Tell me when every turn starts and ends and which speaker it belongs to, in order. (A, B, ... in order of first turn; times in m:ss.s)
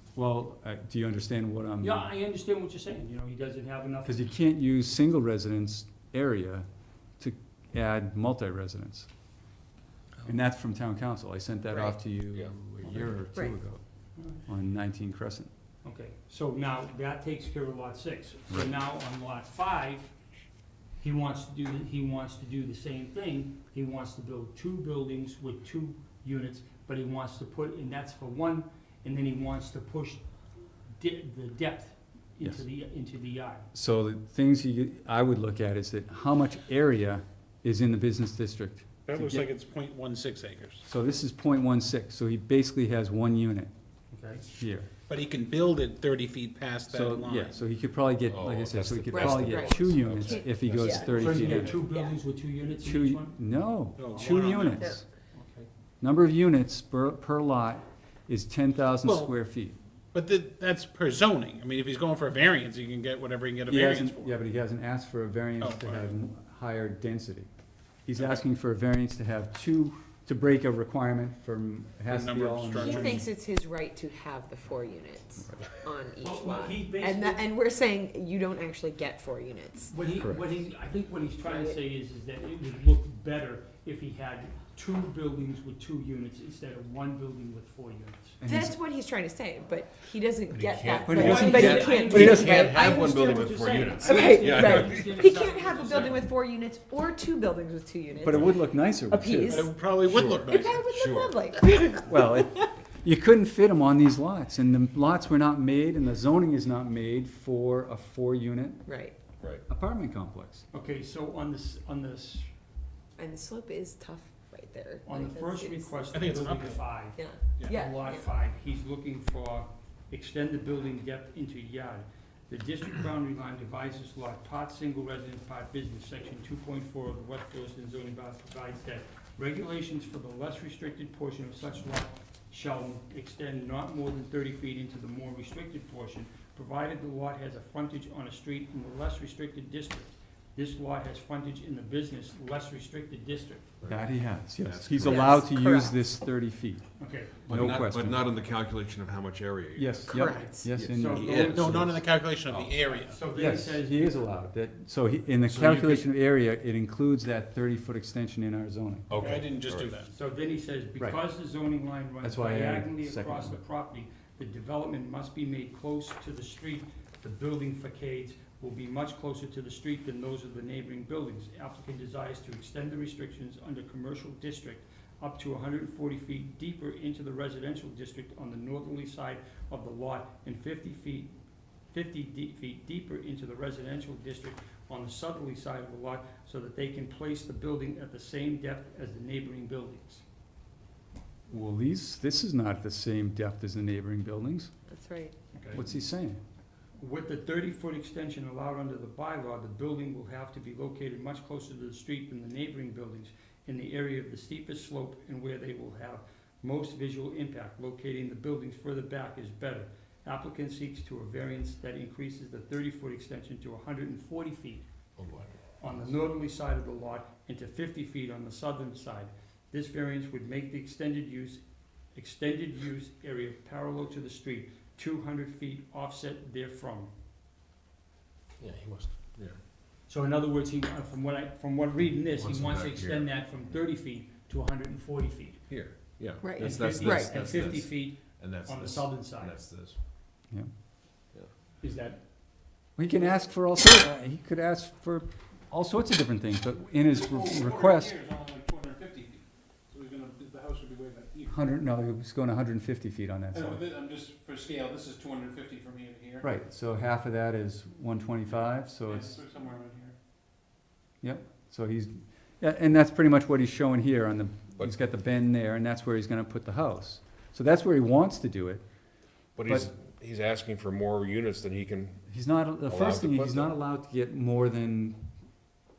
0:00.2-0:02.1 A
0:01.8-0:04.2 B
0:04.0-0:06.7 A
0:07.2-0:09.1 A
0:10.2-0:13.8 A
0:11.7-0:12.0 C
0:12.3-0:13.1 D
0:14.4-0:15.5 A
0:15.8-0:20.1 B
0:21.0-0:30.2 B
0:31.0-0:33.7 B
0:33.7-0:39.5 A
0:39.1-0:40.8 E
0:40.8-0:43.7 A
0:44.1-0:44.4 B
0:44.6-0:44.9 A
0:45.1-0:47.6 E
0:46.9-0:51.8 A
0:48.3-0:51.8 D
0:49.1-0:52.2 C
0:51.0-0:53.4 B
0:52.8-0:55.0 A
0:54.0-0:55.0 E
0:54.1-0:54.7 B
0:55.3-0:55.7 B
0:56.0-0:59.8 A
0:59.0-0:59.4 E
1:00.1-1:04.4 E
1:03.7-1:07.5 A
1:05.6-1:06.2 E
1:08.1-1:13.2 A
1:12.1-1:13.3 E
1:12.7-1:19.9 C
1:15.4-1:15.7 A
1:16.2-1:17.5 B
1:19.9-1:28.4 B
1:20.2-1:20.4 A
1:21.4-1:21.8 C
1:28.4-1:28.8 A
1:28.4-1:33.3 C
1:30.5-1:35.2 D
1:31.0-1:32.5 A
1:31.1-1:36.3 B
1:34.0-1:39.8 C
1:35.7-1:36.2 E
1:38.2-1:40.5 A
1:39.5-1:40.8 E
1:40.5-1:42.4 C
1:40.9-1:41.4 D
1:42.1-1:48.9 A
1:48.8-1:49.2 C
1:49.7-1:50.6 A
1:50.7-1:52.5 B
1:53.2-1:56.2 C
1:55.0-2:23.7 B
1:56.1-1:57.0 E
1:57.1-1:58.3 C
2:23.8-2:25.4 D
2:23.9-2:26.9 A
2:25.0-2:26.0 C
2:27.0-2:27.4 B
2:27.5-2:28.2 A
2:27.5-2:30.1 D
2:29.8-2:31.6 A
2:30.1-2:30.7 C
2:30.7-2:32.8 D
2:30.7-2:31.8 B
2:31.4-2:33.2 E
2:32.9-2:34.3 B
2:33.4-2:39.1 A
2:35.4-2:36.1 D
2:39.1-2:40.0 D
2:39.2-2:40.1 E
2:40.1-3:01.3 B
2:42.2-2:43.6 A
3:01.9-3:10.2 B
3:11.5-3:14.7 A
3:14.9-3:15.4 C
3:15.5-3:15.8 B
3:15.7-3:16.4 A
3:17.0-3:34.8 B
3:35.2-3:35.6 D
3:35.8-3:41.6 B
3:42.1-3:47.1 B
3:48.6-3:49.1 E
3:50.1-3:55.7 B
3:52.4-3:53.3 D
3:55.7-4:00.0 D
3:56.4-3:57.3 C
3:56.5-3:59.6 B
4:01.8-4:02.2 B
4:03.0-4:08.1 A
4:06.9-4:11.6 E
4:11.5-4:13.8 A
4:13.5-4:16.5 E
4:16.4-4:19.4 A
4:19.1-4:20.2 E
4:21.2-4:28.8 A
4:29.6-4:32.2 D
4:32.3-4:35.2 A
4:32.9-4:33.8 D